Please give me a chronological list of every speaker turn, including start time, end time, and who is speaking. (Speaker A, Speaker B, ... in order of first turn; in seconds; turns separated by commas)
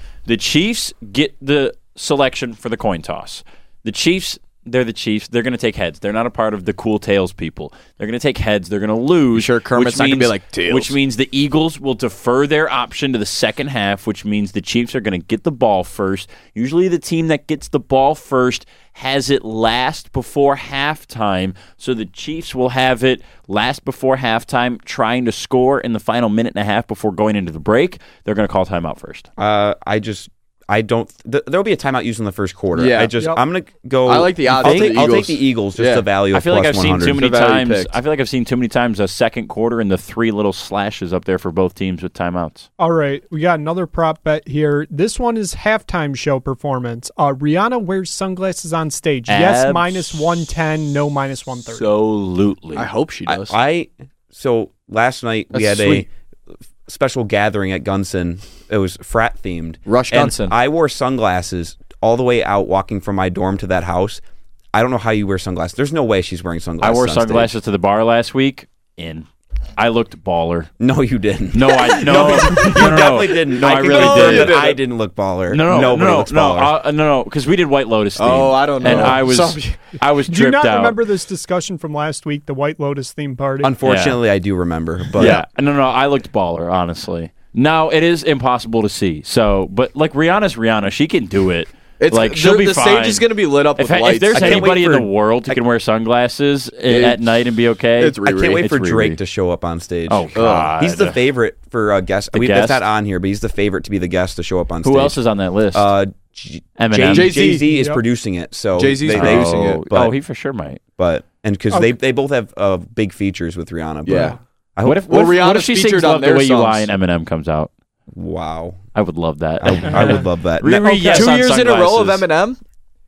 Speaker A: 0.3-29.3, Speaker B: 9.3-10.9, Speaker C: 29.4-37.2, Speaker B: 32.7-33.1, Speaker B: 34.1-36.1, Speaker A: 34.5-35.1, Speaker A: 36.3-42.7, Speaker B: 37.1-37.9, Speaker D: 42.8-51.9, Speaker A: 49.3-50.5, Speaker A: 51.6-52.9, Speaker B: 52.8-53.6, Speaker C: 53.3-56.1, Speaker B: 55.5-56.0, Speaker C: 56.9-64.2, Speaker B: 59.9-60.5, Speaker C: 64.7-67.5, Speaker A: 66.8-69.3, Speaker A: 69.8-70.7, Speaker C: 70.8-76.8, Speaker A: 71.5-74.6, Speaker D: 72.1-72.8, Speaker B: 73.7-74.8, Speaker A: 75.5-81.0, Speaker B: 78.2-79.8, Speaker D: 78.8-79.1, Speaker D: 80.3-83.7, Speaker C: 83.6-85.4, Speaker A: 83.8-84.2, Speaker A: 85.2-93.3, Speaker B: 85.2-85.5, Speaker B: 92.0-94.7, Speaker A: 93.8-99.2, Speaker C: 94.3-95.6, Speaker B: 96.9-97.3, Speaker B: 98.0-98.7, Speaker C: 98.2-105.2, Speaker A: 100.1-101.2, Speaker B: 100.3-100.7, Speaker A: 102.3-102.8, Speaker A: 104.8-105.9, Speaker C: 105.7-110.2, Speaker A: 106.8-107.3, Speaker B: 107.1-107.6, Speaker D: 107.4-108.0, Speaker B: 108.8-109.8, Speaker A: 109.1-110.8, Speaker C: 111.0-115.1, Speaker B: 114.0-114.4, Speaker D: 114.1-114.4, Speaker A: 114.8-117.7, Speaker B: 115.1-116.9, Speaker C: 118.1-118.8, Speaker A: 119.0-122.3, Speaker C: 119.6-121.1, Speaker D: 119.9-121.3, Speaker B: 121.0-122.6